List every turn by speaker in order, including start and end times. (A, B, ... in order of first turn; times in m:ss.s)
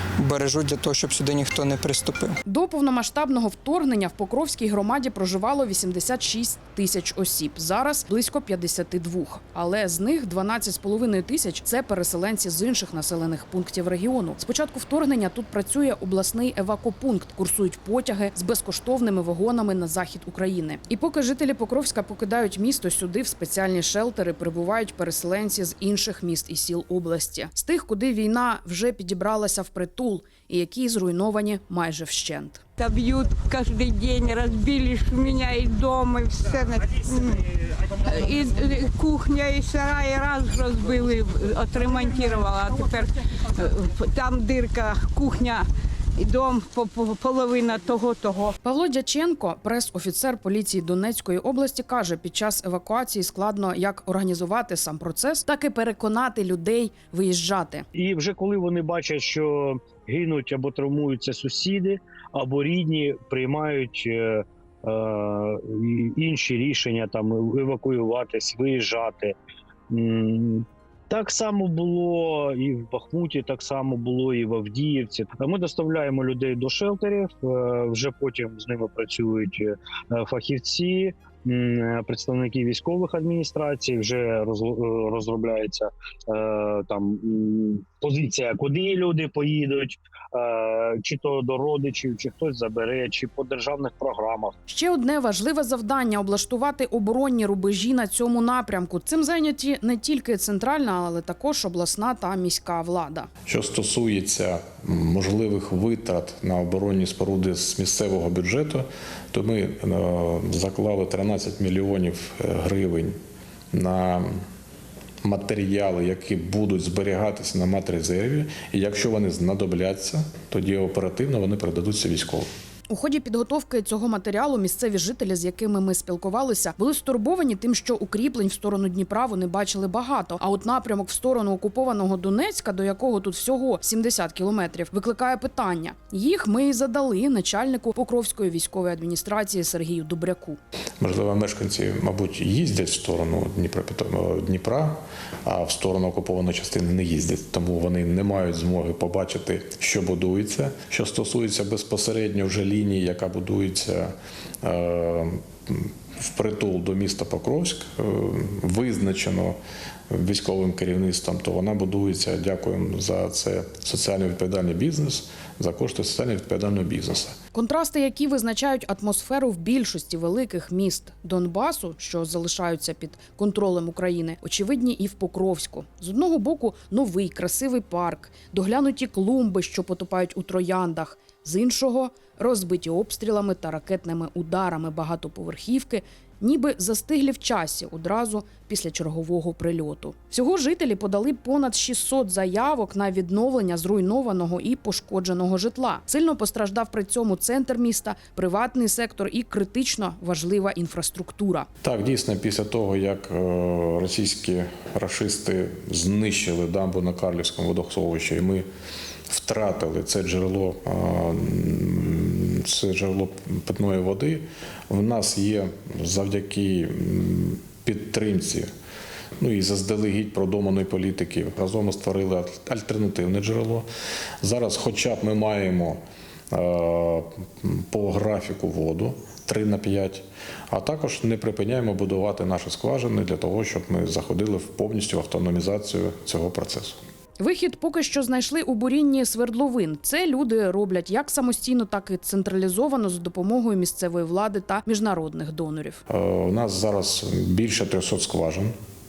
0:00.2-0:02.4 A
0:02.5-0:32.6 B
0:32.8-0:48.6 C
0:48.6-0:57.9 B
0:58.0-1:09.4 D
1:09.9-1:34.5 D
1:34.7-1:43.3 B
1:43.5-1:53.2 E
1:53.7-1:54.4 E
1:55.2-2:02.5 E
2:02.9-2:20.6 B
2:21.0-2:39.6 E
2:40.1-2:47.4 E
2:47.5-3:21.7 B
3:21.8-3:28.7 E
3:29.3-3:38.7 E
3:39.4-3:43.9 E
3:44.4-3:57.0 E
3:57.4-4:06.0 B
4:06.1-4:08.7 E